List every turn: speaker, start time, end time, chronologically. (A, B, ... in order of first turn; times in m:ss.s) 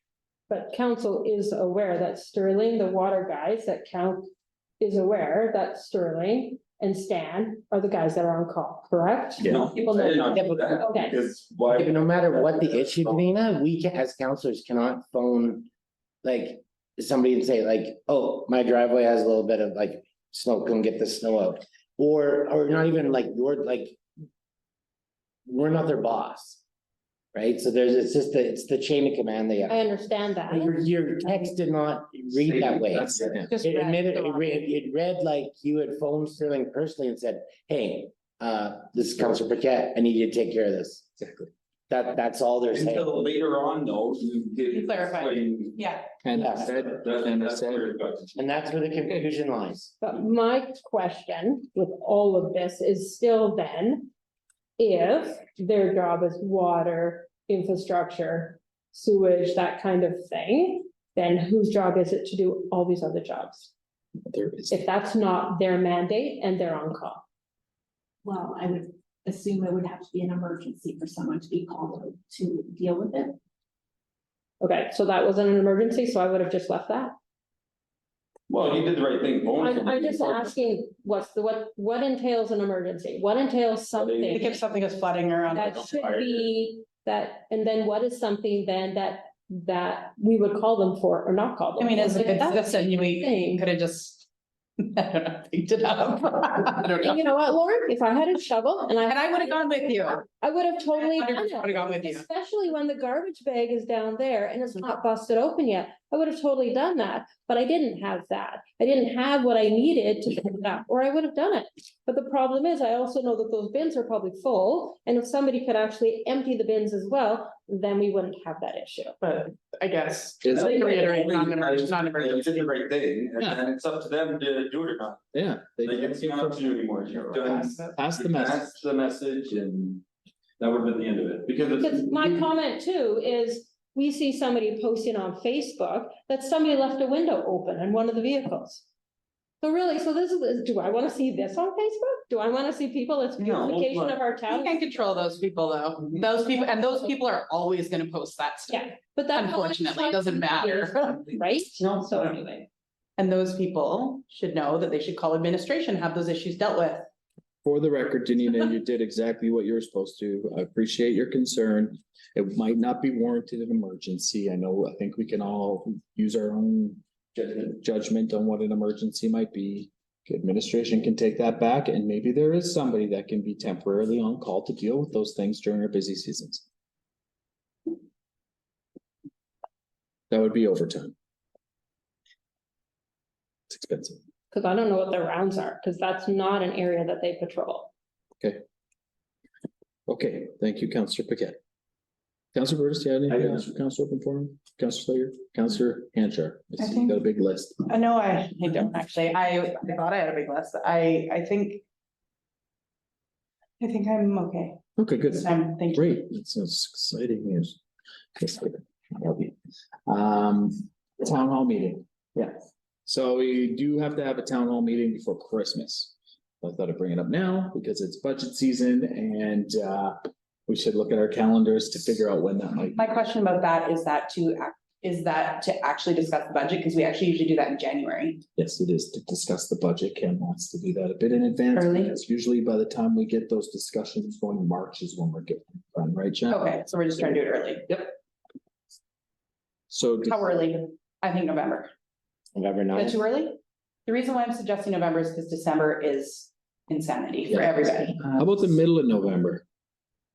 0:00.5-0:11.1 A
0:09.4-0:13.2 B
0:11.7-0:15.7 C
0:16.2-0:24.0 C
0:25.4-0:26.6 C
0:27.3-0:29.8 C
0:29.7-0:30.8 A
0:30.5-0:41.1 C
0:32.6-0:33.2 B
0:32.7-0:33.5 D
0:33.5-0:34.6 E
0:41.2-0:41.5 D
0:41.9-0:43.1 C
0:42.7-0:45.9 B
0:44.7-0:46.0 E
0:46.2-0:47.9 D
0:46.4-0:46.7 C
0:46.6-0:48.3 B
0:48.4-0:49.9 C
0:50.0-0:54.1 A
0:54.8-1:03.7 A
1:04.3-1:04.8 D
1:04.7-1:07.2 A
1:08.2-1:13.4 F
1:14.6-1:17.1 A
1:18.5-1:20.6 B
1:19.6-1:24.6 A
1:23.9-1:24.6 B
1:24.3-1:25.9 E
1:25.5-1:33.6 A
1:25.6-1:26.5 B
1:31.8-1:34.2 E
1:34.8-1:37.4 E
1:37.0-1:59.2 A
1:39.0-1:40.2 E
1:40.9-1:42.2 E
1:59.2-2:02.7 E
2:00.4-2:01.0 D
2:00.5-2:05.2 B
2:05.3-2:06.6 D
2:05.8-2:10.0 B
2:07.4-2:07.9 E
2:07.9-2:08.7 D
2:10.6-2:12.4 B
2:11.8-2:18.8 A
2:19.6-2:24.8 A
2:23.4-2:24.2 B
2:24.5-2:31.2 E
2:28.7-2:32.6 A
2:31.1-2:32.4 B
2:33.2-2:37.1 E
2:37.6-2:56.6 D
3:00.3-3:01.1 D
3:03.7-3:04.2 D
3:04.5-3:07.9 A
3:10.1-3:11.6 D
3:12.5-3:17.9 D
3:16.8-3:17.1 E
3:17.9-3:21.8 E
3:23.8-3:26.2 E
3:25.0-3:27.8 D
3:28.4-3:29.5 D
3:30.1-3:43.0 D
3:43.0-3:48.4 E
3:48.6-3:56.7 D
3:51.7-3:52.1 E
3:56.5-3:57.9 E
3:59.9-4:00.4 D
4:00.2-4:01.9 E
4:02.5-4:03.2 C
4:02.9-4:08.3 E
4:07.5-4:07.8 D
4:08.3-4:09.6 D